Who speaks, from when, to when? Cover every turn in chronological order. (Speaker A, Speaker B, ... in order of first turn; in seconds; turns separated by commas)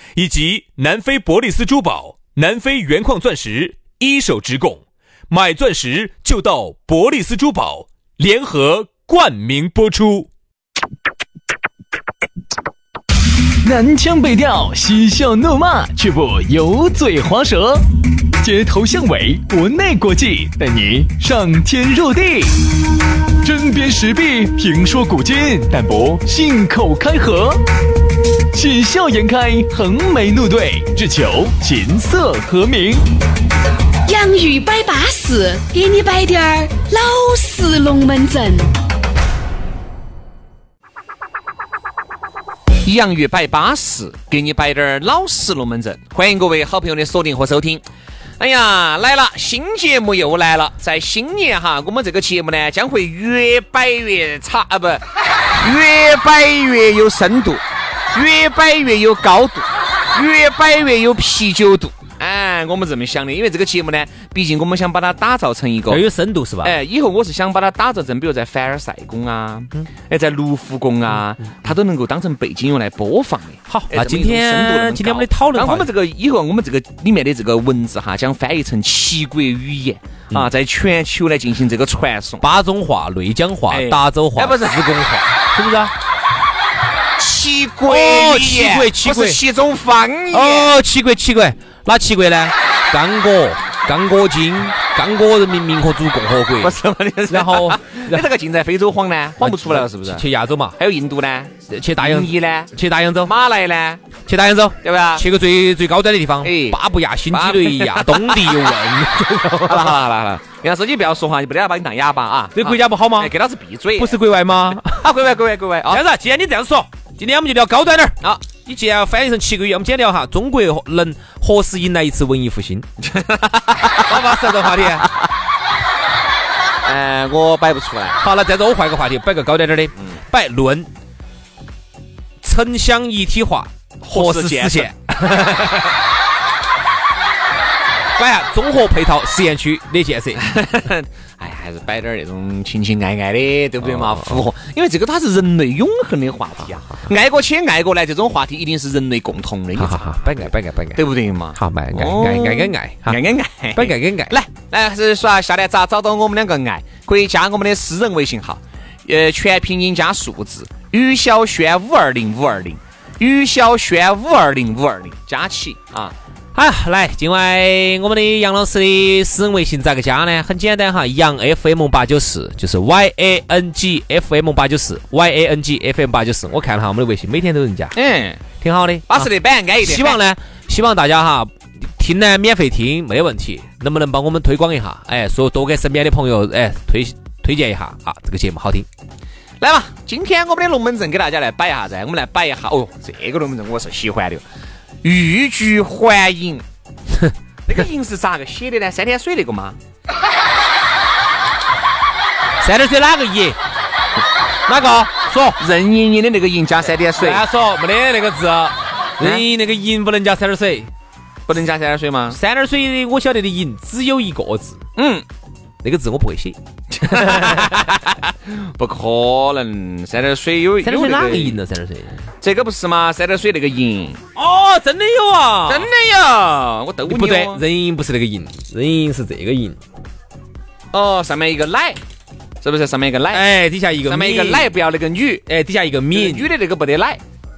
Speaker A: 0.2-10.3, Speaker B: 13.6-17.9, Speaker B: 18.4-22.6, Speaker B: 23.4-27.6, Speaker B: 28.5-33.0, Speaker C: 34.1-38.7, Speaker D: 42.8-47.8, Speaker D: 48.4-66.0, Speaker E: 65.9-66.8, Speaker D: 66.6-82.5, Speaker E: 73.7-75.9, Speaker E: 82.4-85.9, Speaker D: 83.7-84.9, Speaker D: 87.2-90.8, Speaker E: 87.9-89.4, Speaker E: 90.3-96.8, Speaker D: 96.6-100.2, Speaker E: 97.3-98.3, Speaker E: 99.4-100.8, Speaker D: 100.8-102.7, Speaker E: 101.7-103.3, Speaker D: 103.2-104.0, Speaker E: 104.3-110.0, Speaker D: 104.8-105.2, Speaker D: 106.4-106.8, Speaker D: 107.3-108.6, Speaker D: 109.7-114.2, Speaker E: 112.6-113.3, Speaker E: 114.0-115.0, Speaker D: 114.8-116.0, Speaker E: 115.9-122.9, Speaker D: 123.0-124.4, Speaker E: 124.0-125.1, Speaker D: 126.9-128.2, Speaker E: 128.2-130.9, Speaker E: 132.4-135.9, Speaker D: 134.0-134.9, Speaker E: 138.2-140.4, Speaker D: 140.3-166.2, Speaker E: 143.8-144.4, Speaker E: 149.8-151.0, Speaker E: 151.6-153.2, Speaker E: 153.8-154.3, Speaker E: 166.6-178.0, Speaker D: 177.9-178.4, Speaker E: 178.6-188.9, Speaker D: 179.1-180.2, Speaker D: 189.6-194.4, Speaker D: 195.0-196.6, Speaker D: 197.7-199.8, Speaker E: 202.6-203.6, Speaker E: 204.7-205.6, Speaker D: 205.6-207.4, Speaker E: 207.2-210.9, Speaker D: 211.5-212.4, Speaker E: 212.3-214.8, Speaker D: 215.0-215.2, Speaker E: 215.8-217.9, Speaker D: 216.9-221.6, Speaker E: 220.8-222.2, Speaker D: 222.4-224.2, Speaker E: 224.4-225.9, Speaker D: 225.7-227.6, Speaker E: 227.1-229.8, Speaker D: 230.9-232.0, Speaker D: 232.6-233.4, Speaker E: 233.3-234.7, Speaker D: 234.1-235.4, Speaker E: 235.5-236.5, Speaker D: 236.1-237.2